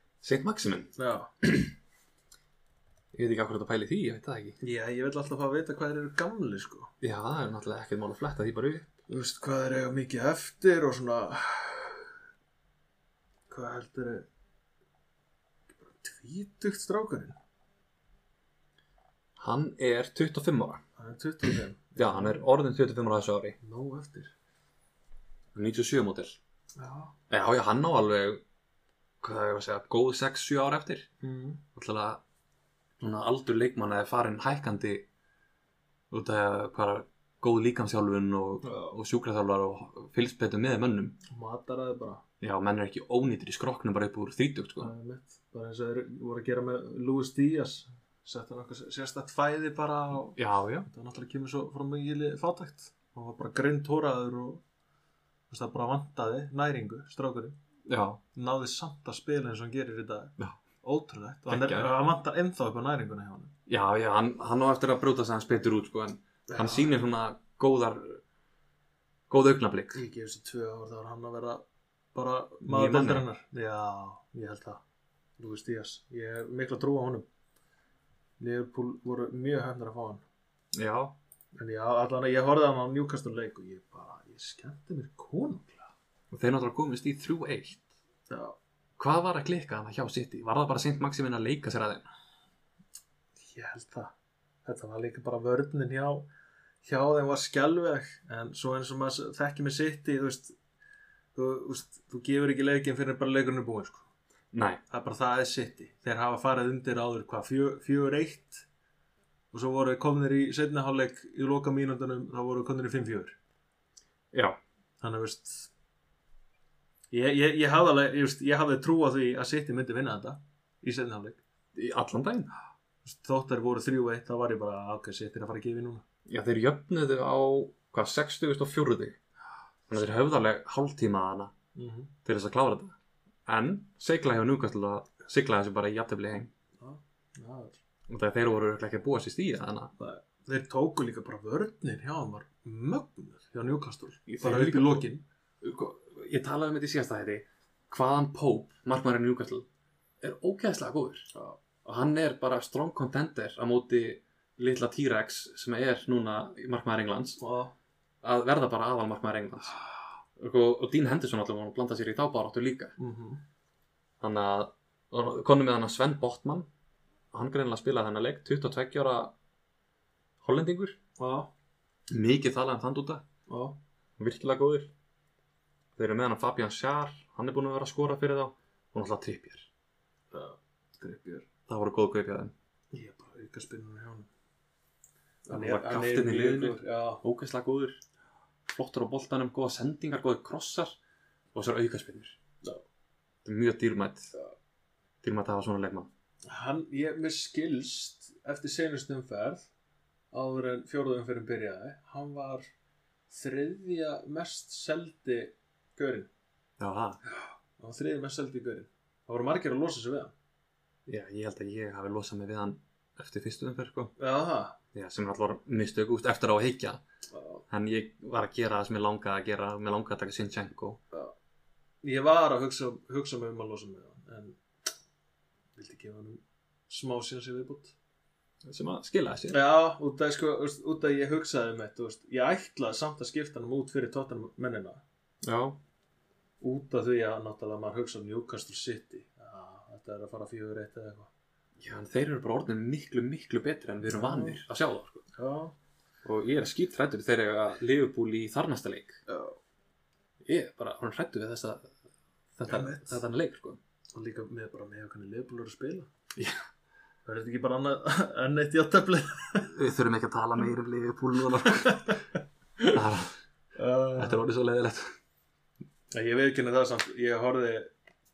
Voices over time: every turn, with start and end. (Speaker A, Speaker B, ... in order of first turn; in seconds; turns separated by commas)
Speaker A: 0.2-0.9, Speaker B: 1.0-1.3, Speaker A: 1.4-1.7, Speaker A: 3.1-4.6, Speaker B: 4.6-6.9, Speaker A: 7.0-8.9, Speaker B: 9.1-12.1, Speaker B: 13.5-14.3, Speaker B: 15.8-17.4, Speaker A: 19.4-20.8, Speaker B: 21.0-22.4, Speaker A: 21.9-23.6, Speaker B: 23.6-24.3, Speaker A: 25.6-26.4, Speaker B: 26.8-27.1, Speaker A: 27.3-28.4, Speaker A: 29.2-31.1, Speaker B: 31.2-31.6, Speaker A: 31.7-32.2, Speaker A: 33.0-35.1, Speaker A: 36.1-41.2, Speaker B: 38.6-38.9, Speaker B: 41.3-42.2, Speaker A: 42.4-44.9, Speaker B: 44.8-54.6, Speaker A: 50.4-50.9, Speaker B: 55.5-57.5, Speaker A: 57.9-58.2, Speaker B: 58.3-63.5, Speaker A: 61.5-61.9, Speaker A: 63.7-68.2, Speaker B: 66.5-66.9, Speaker A: 69.3-70.0, Speaker B: 69.9-71.6, Speaker B: 72.1-74.8, Speaker A: 72.6-73.2, Speaker B: 75.4-77.2, Speaker B: 78.4-80.2, Speaker A: 80.7-81.2, Speaker B: 81.6-85.9, Speaker A: 86.3-87.9, Speaker B: 88.3-88.6, Speaker A: 89.0-92.0, Speaker B: 93.4-94.1, Speaker B: 94.6-96.3, Speaker B: 96.8-100.5, Speaker B: 101.3-104.1, Speaker A: 104.5-104.8, Speaker B: 104.9-108.7, Speaker B: 109.5-113.4, Speaker A: 114.3-114.6, Speaker B: 115.0-115.7, Speaker B: 117.1-121.4, Speaker A: 121.7-122.5, Speaker B: 123.0-126.0, Speaker A: 126.2-129.2, Speaker A: 129.9-131.5, Speaker B: 131.7-132.1, Speaker A: 132.2-132.9, Speaker A: 133.4-136.5, Speaker B: 136.8-137.8, Speaker A: 138.1-139.9, Speaker B: 140.0-145.2, Speaker A: 144.3-145.1, Speaker A: 145.6-149.7, Speaker A: 150.2-151.3, Speaker B: 151.3-151.6, Speaker A: 151.8-157.4, Speaker B: 157.4-157.7, Speaker A: 158.2-159.7, Speaker A: 160.4-162.9, Speaker B: 163.0-163.4, Speaker A: 164.2-166.7, Speaker A: 167.3-169.3, Speaker A: 170.4-171.0, Speaker B: 171.2-171.5, Speaker A: 172.1-173.2, Speaker B: 173.5-173.8, Speaker A: 174.2-174.9, Speaker A: 176.0-179.7, Speaker B: 180.3-181.5, Speaker A: 181.7-182.5, Speaker B: 182.9-184.3, Speaker B: 185.4-187.2, Speaker A: 185.5-188.0, Speaker A: 188.7-190.9, Speaker A: 191.5-192.4, Speaker A: 193.4-194.3, Speaker A: 195.2-196.1, Speaker B: 196.4-199.7, Speaker B: 200.3-202.7, Speaker B: 203.3-206.3, Speaker A: 206.8-207.2, Speaker B: 207.3-210.3, Speaker A: 211.1-214.1, Speaker B: 214.2-214.8, Speaker A: 214.9-217.0, Speaker B: 217.3-217.6, Speaker A: 217.7-221.0, Speaker B: 222.0-224.6, Speaker B: 225.8-227.9, Speaker A: 228.6-229.6, Speaker B: 229.5-235.0, Speaker A: 235.4-235.8, Speaker B: 236.6-241.3, Speaker A: 241.8-245.2, Speaker B: 244.1-244.6, Speaker B: 245.3-245.7, Speaker A: 246.2-249.2, Speaker B: 249.3-249.6, Speaker A: 250.4-251.9, Speaker A: 252.6-253.8, Speaker B: 252.7-253.2, Speaker B: 254.1-256.1, Speaker A: 256.4-256.6, Speaker B: 257.2-259.7, Speaker A: 259.7-262.2, Speaker B: 261.8-262.2, Speaker A: 262.9-263.3, Speaker B: 263.8-264.4, Speaker A: 264.1-265.1, Speaker B: 266.1-267.9